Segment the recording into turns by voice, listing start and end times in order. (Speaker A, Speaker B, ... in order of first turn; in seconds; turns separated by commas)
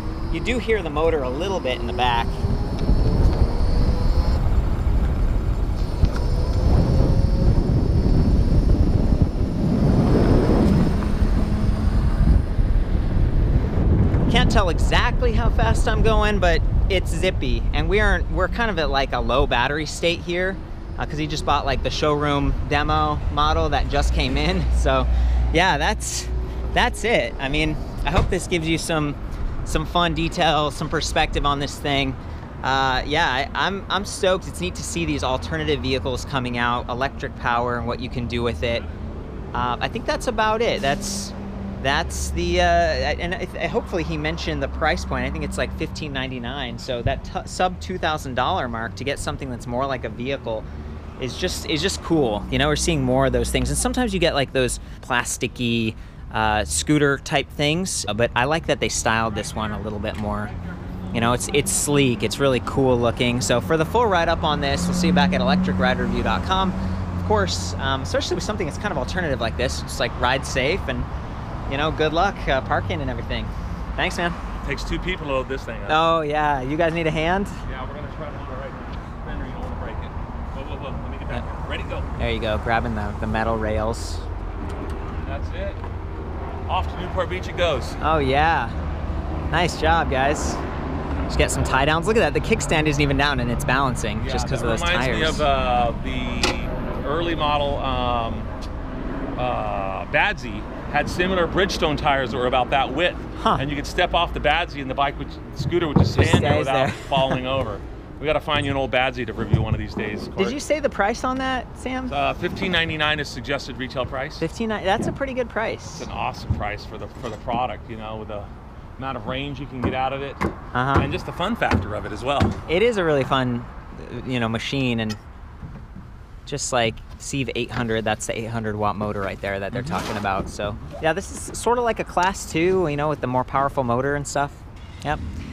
Speaker A: 0.3-2.4, Speaker A: 14.3-38.9, Speaker A: 39.5-50.7, Speaker A: 51.2-60.5, Speaker B: 59.4-59.9, Speaker B: 60.5-61.8, Speaker A: 61.1-71.1, Speaker A: 71.7-74.4, Speaker B: 74.6-76.1, Speaker A: 75.9-77.6, Speaker B: 77.7-82.1, Speaker A: 82.2-84.3, Speaker B: 85.2-85.8, Speaker B: 86.7-88.0, Speaker A: 88.0-88.8, Speaker A: 89.5-90.6, Speaker A: 91.3-95.5, Speaker B: 94.2-98.5, Speaker B: 99.4-110.6, Speaker A: 103.4-103.6, Speaker A: 106.2-107.4, Speaker A: 110.4-112.1, Speaker B: 112.1-114.4, Speaker A: 114.4-116.1, Speaker B: 116.0-122.6, Speaker A: 120.7-121.1, Speaker A: 122.7-125.2, Speaker A: 126.5-135.2, Speaker B: 129.7-130.0